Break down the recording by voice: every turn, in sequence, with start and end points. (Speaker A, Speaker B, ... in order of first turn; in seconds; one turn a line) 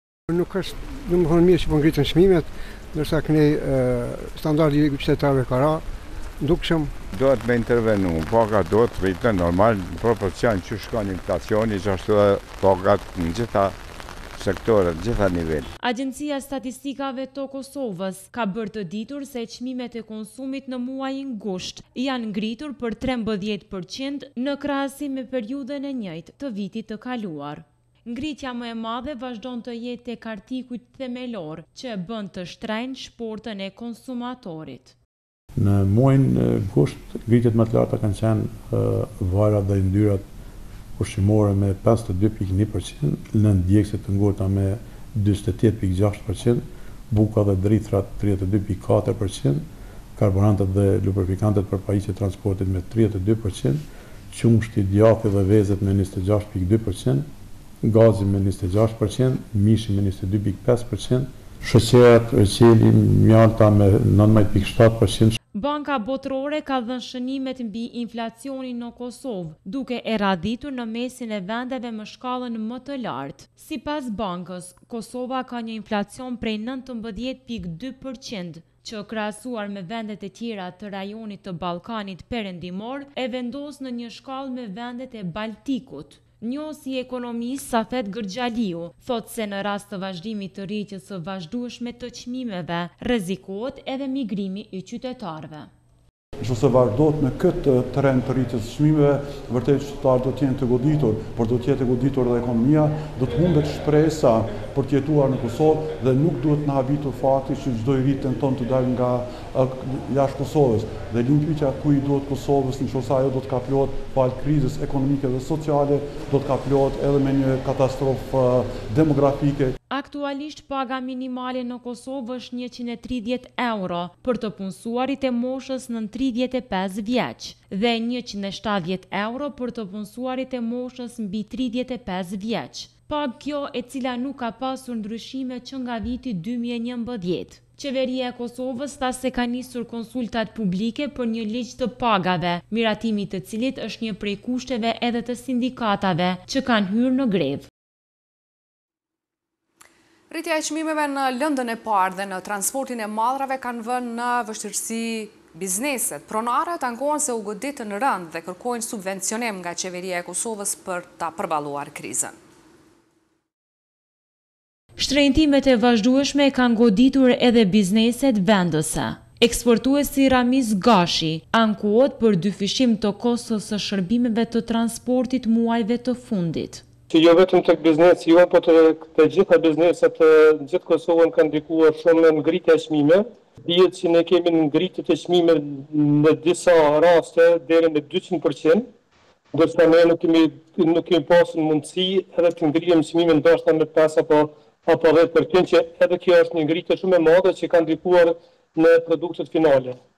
Speaker A: 0.3-5.8
Speaker A: 6.4-7.0
Speaker B: 7.1-13.8
Speaker B: 14.3-15.7
Speaker C: 15.8-35.0
Speaker D: 35.6-40.3
Speaker D: 41.0-57.3
Speaker D: 57.8-65.4
Speaker C: 65.5-95.7
Speaker E: 96.4-119.8
Speaker C: 119.9-147.7
Speaker F: 150.3-162.3
Speaker C: 165.0-176.8
Speaker G: 177.1-188.9
Speaker G: 189.5-200.0